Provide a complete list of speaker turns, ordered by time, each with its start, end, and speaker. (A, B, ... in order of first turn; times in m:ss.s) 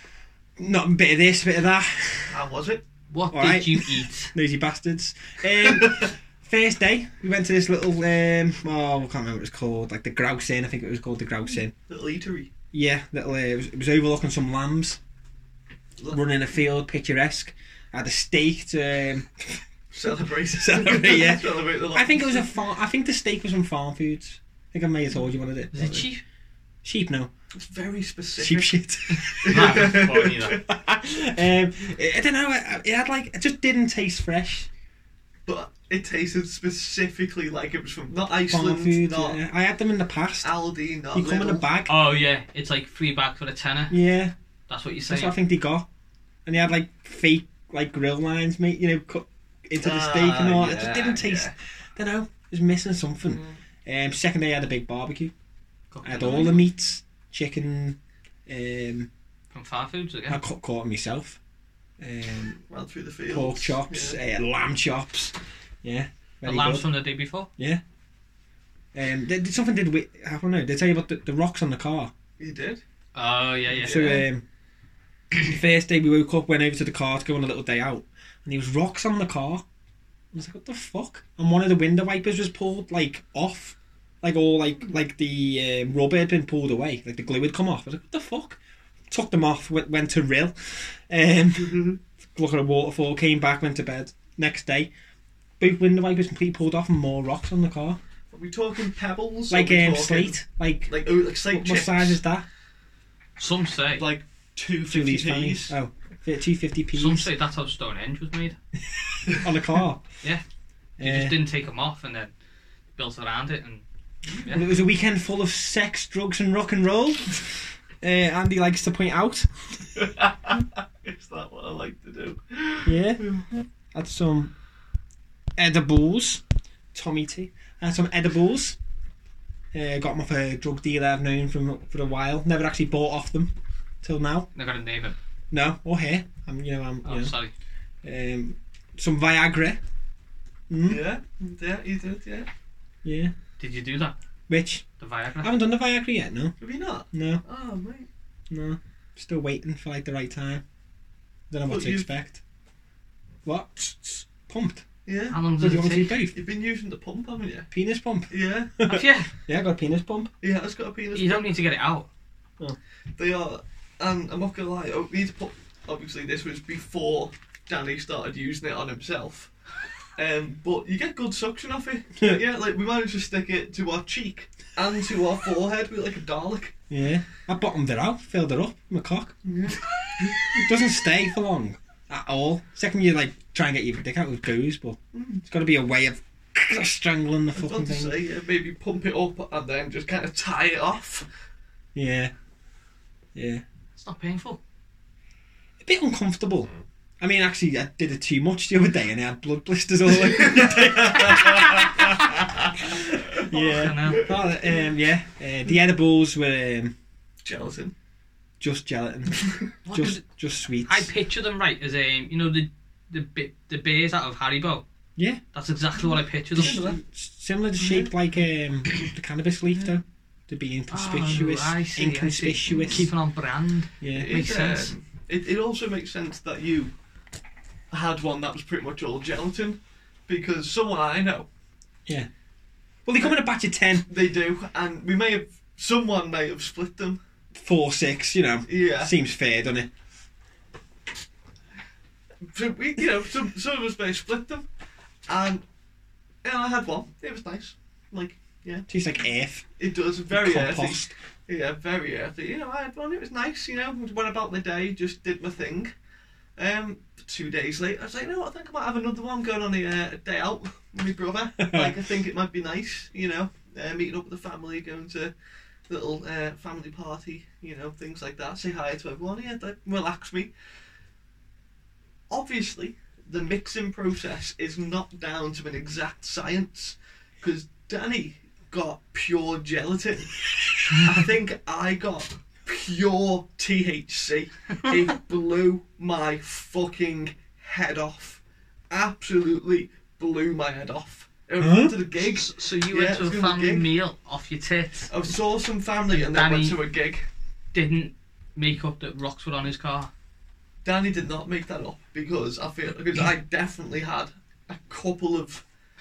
0:00.6-0:02.4 A
0:02.3-0:02.8 B
0:03.1-0:04.3 C
0:03.3-0:11.7 A
0:11.9-0:12.5 B
0:12.7-0:15.0 A
0:16.1-0:19.6 A
0:19.9-0:22.5 B
0:20.5-0:26.1 A
0:25.7-0:26.2 C
0:26.8-0:27.3 A
0:27.5-0:30.6 B
0:28.4-0:34.7 A
0:29.4-0:30.6 C
0:35.5-0:39.4 B
0:38.5-0:40.5 A
0:40.4-0:41.7 B
0:41.1-0:42.1 A
0:41.9-0:44.0 C
0:43.9-0:44.4 A
0:44.7-0:45.4 C
0:45.1-0:45.9 A
0:46.5-0:55.3 A
0:49.8-0:51.5 B
0:55.9-0:56.7 C
0:56.0-0:59.1 A
0:59.5-1:00.4 C
1:00.3-1:01.4 A
1:02.0-1:02.6 A
1:02.7-1:04.2 B
1:03.3-1:06.9 A
1:06.4-1:07.5 C
1:07.6-1:07.8 A
1:08.9-1:12.1 A
1:12.4-1:12.8 B
1:13.2-1:14.2 C
1:13.7-1:14.4 A
1:13.8-1:14.3 B
1:15.3-1:19.6 A
1:20.3-1:28.6 A
1:29.1-1:34.9 A
1:31.6-1:32.0 B
1:35.6-1:38.0 A
1:38.3-1:42.2 B
1:39.5-1:42.5 A
1:43.4-1:44.1 C
1:44.0-1:45.7 B
1:44.9-1:47.3 A
1:46.9-1:48.6 C
1:49.3-1:50.0 A
1:51.0-1:51.4 A
1:51.0-1:52.3 C
1:53.0-1:53.8 C
1:54.5-1:59.5 A
2:00.0-2:03.5 B
2:02.8-2:03.4 A
2:03.9-2:04.5 A
2:05.6-2:06.4 A
2:06.9-2:08.8 A
2:09.7-2:14.5 A
2:14.6-2:15.2 C
2:15.5-2:17.3 A
2:17.0-2:17.5 C
2:18.0-2:19.8 A
2:20.7-2:21.0 A
2:20.8-2:22.5 B
2:23.0-2:23.3 A
2:23.6-2:24.2 C
2:24.5-2:24.8 A
2:25.0-2:25.5 C
2:25.4-2:26.6 A
2:26.6-2:28.1 B
2:27.1-2:27.4 A
2:28.5-2:30.6 A
2:31.5-2:32.4 A
2:31.7-2:32.1 B
2:33.4-2:34.9 A
2:35.1-2:35.4 B
2:35.3-2:36.3 C
2:35.6-2:36.3 A
2:36.3-2:37.7 B
2:37.7-2:40.3 A
2:38.3-2:38.8 B
2:38.9-2:39.3 C
2:40.4-2:41.5 B
2:41.1-2:42.1 C
2:43.2-2:49.5 B
2:50.2-2:56.7 B
2:52.2-2:52.4 A
2:56.9-2:59.4 A
2:59.5-3:00.7 B
3:00.5-3:08.2 A
3:05.1-3:05.4 B
3:07.6-3:11.3 B
3:12.0-3:12.3 A
3:13.4-3:13.6 A
3:14.0-3:14.6 C
3:15.8-3:27.0 A
3:20.2-3:22.0 B
3:23.5-3:24.3 C
3:27.4-3:27.9 B
3:28.6-3:31.1 A
3:29.9-3:30.2 C
3:30.8-3:34.8 C
3:35.5-3:36.9 C
3:36.6-3:37.0 B
3:36.6-3:43.1 A
3:37.8-3:38.1 B
3:40.9-3:44.9 C
3:44.0-3:44.3 A
3:44.1-3:46.9 B
3:47.9-3:51.5 B
3:53.1-3:54.1 A
3:54.1-3:57.2 B
3:57.6-3:59.9 A
3:58.7-3:59.1 B
4:02.4-4:04.7 B
4:05.3-4:05.6 B
4:06.4-4:08.9 B
4:08.9-4:09.7 A
4:09.8-4:15.9 B
4:10.3-4:11.1 A
4:16.6-4:25.3 B
4:21.6-4:22.0 A
4:25.9-4:30.5 B
4:32.3-4:40.3 B
4:41.0-4:53.9 B
4:51.6-4:52.0 A
4:52.2-4:55.1 C
4:55.1-4:57.3 B
4:56.1-4:56.8 C
4:57.7-5:00.1 C
5:00.8-5:05.6 B